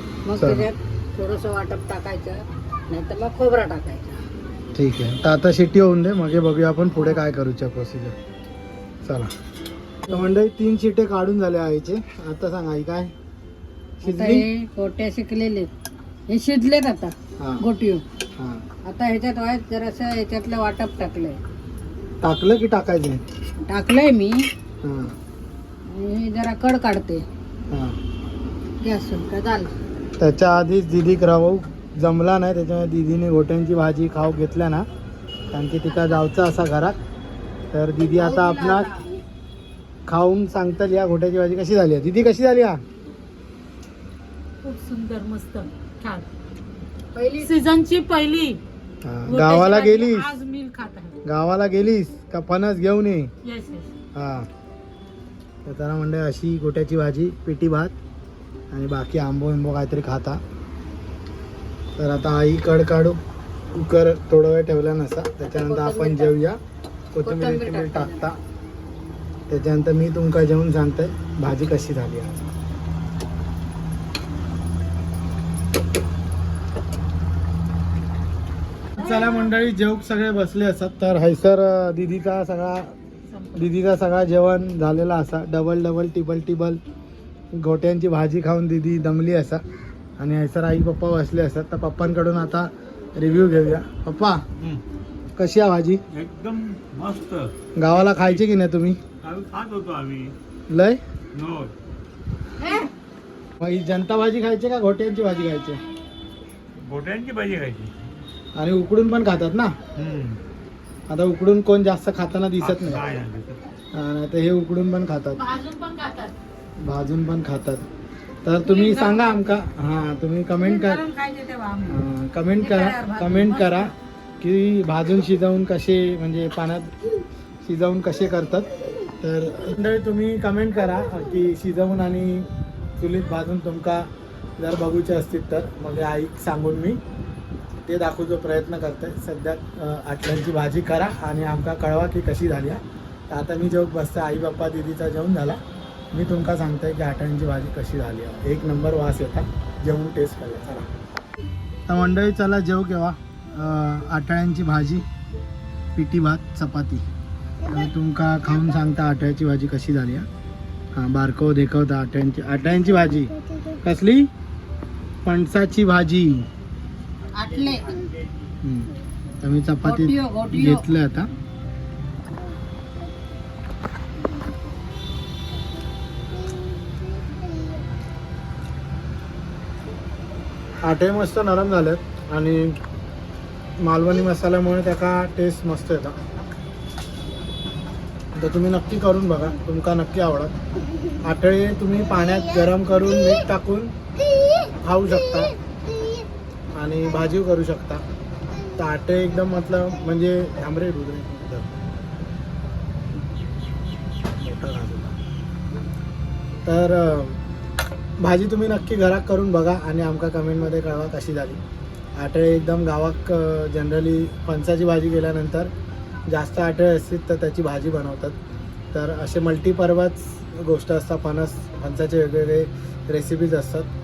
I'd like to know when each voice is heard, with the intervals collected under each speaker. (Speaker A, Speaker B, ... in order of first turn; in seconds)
Speaker A: 0.2-4.2, 7.0-7.2, 14.0-15.7, 16.3-18.0, 18.8-21.4, 23.7-24.5, 25.9-27.2, 28.8-29.7, 35.9-36.2, 38.1-39.1, 47.1-47.7, 65.5-66.3, 67.2-68.3, 102.6-102.9, 115.4-115.7, 118.6-119.6, 120.5-123.9, 167.3-168.1, 169.8-170.9
Speaker B: 0.4-0.7, 4.7-8.2, 9.0-9.3, 10.1-13.1, 14.0-14.4, 18.4-18.6, 22.2-23.2, 24.8-25.1, 27.7-28.0, 30.2-34.9, 35.5-37.0, 37.7-38.9, 40.1-42.8, 49.0-50.4, 51.2-53.3, 54.1-54.5, 55.6-57.9, 58.7-60.4, 62.0-63.2, 63.7-66.6, 67.1-68.4, 69.5-72.5, 78.9-82.9, 83.5-86.8, 87.5-89.6, 90.2-94.4, 95.3-96.0, 97.7-99.0, 100.7-101.0, 103.6-105.8, 108.5-109.8, 111.1-113.1, 113.9-115.4, 116.8-117.8, 118.4-121.0, 121.9-126.9, 127.6-137.0, 137.8-145.6, 146.1-150.9, 151.9-155.1, 155.9-157.0, 157.6-160.3, 160.9-164.3, 165.2-166.5, 168.6-168.9, 169.4-171.3, 180.8-182.8, 183.8-186.2, 188.3-190.5, 191.2-193.9, 194.8-195.5, 196.7-198.0, 198.8-201.8, 204.3-205.2, 206.6-207.4, 208.2-211.6, 212.2-215.7, 216.3-218.3, 218.9-223.9
Speaker C: 44.6-46.3, 47.5-48.6, 49.3-51.2, 53.4-53.9, 115.7-116.3
Speaker D: 96.1-97.5, 98.1-98.4, 99.2-100.3, 101.3-101.7, 106.8-108.1, 110.0-110.4, 112.6-113.7